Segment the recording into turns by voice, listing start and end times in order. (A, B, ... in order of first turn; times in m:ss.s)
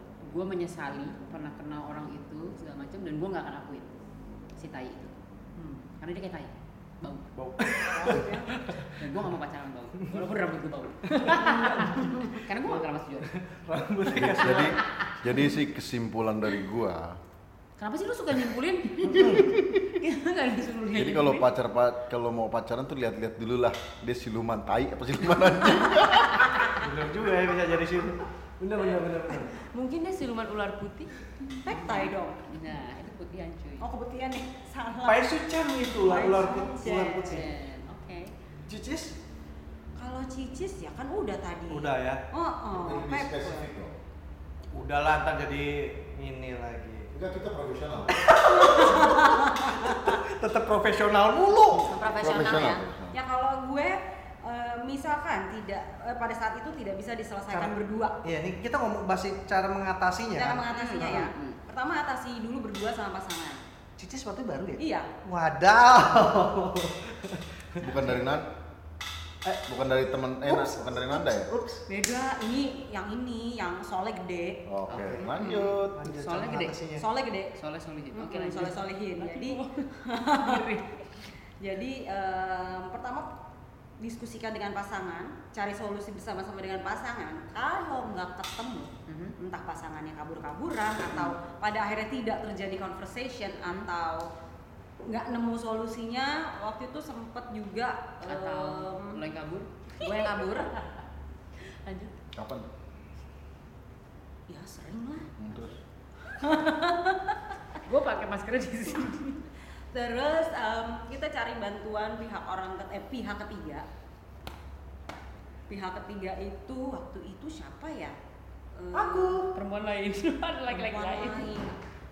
0:00.2-0:03.9 A
0:04.6-0:05.2 A
0:05.6-0:05.9 B
0:06.0-0:07.3 A
0:07.4-0:09.1 C
0:07.9-0:08.6 B
0:08.9-0:13.3 A
0:11.1-0:14.8 C
0:14.2-0:17.2 D
0:14.4-0:15.4 A
0:17.8-0:21.5 A
0:19.1-0:19.5 C
0:19.2-0:19.9 D
0:20.9-0:26.7 D
0:25.9-0:26.7 A
0:26.8-0:29.5 C
0:29.6-0:33.9 A
0:31.5-0:32.4 B
0:33.8-0:35.4 B
0:35.0-0:37.5 C
0:36.0-0:37.5 B
0:37.1-0:38.3 A
0:38.6-0:39.1 C
0:40.0-0:43.7 B
0:41.7-0:42.2 C
0:42.7-0:44.0 D
0:44.7-0:47.1 C
0:47.1-0:49.0 D
0:48.1-0:51.9 C
0:48.5-0:50.2 B
0:51.9-0:58.2 B
0:51.9-0:52.8 A
0:52.1-0:53.2 D
0:57.5-1:01.3 C
1:00.3-1:03.6 B
1:00.7-1:01.6 A
1:04.0-1:08.1 C
1:04.8-1:05.1 B
1:07.8-1:08.5 D
1:09.6-1:11.5 D
1:10.4-1:11.8 C
1:11.9-1:14.6 B
1:14.7-1:16.0 D
1:14.9-1:15.3 C
1:14.9-1:16.8 A
1:15.2-1:15.5 B
1:15.9-1:17.0 C
1:17.0-1:17.5 B
1:17.5-1:21.1 A
1:18.1-1:20.7 B
1:21.6-1:23.3 B
1:24.0-1:34.3 B
1:29.1-1:29.4 A
1:35.0-1:39.2 B
1:38.2-1:40.9 A
1:40.0-1:40.7 B
1:41.8-1:42.1 A
1:42.3-1:42.7 D
1:44.5-1:45.4 B
1:45.4-1:45.8 D
1:46.3-1:47.6 B
1:47.8-1:49.5 A
1:49.9-1:53.9 B
1:55.7-1:58.2 B
1:58.7-1:59.5 B
1:58.9-1:59.5 C
1:59.5-2:01.5 A
2:00.7-2:01.8 B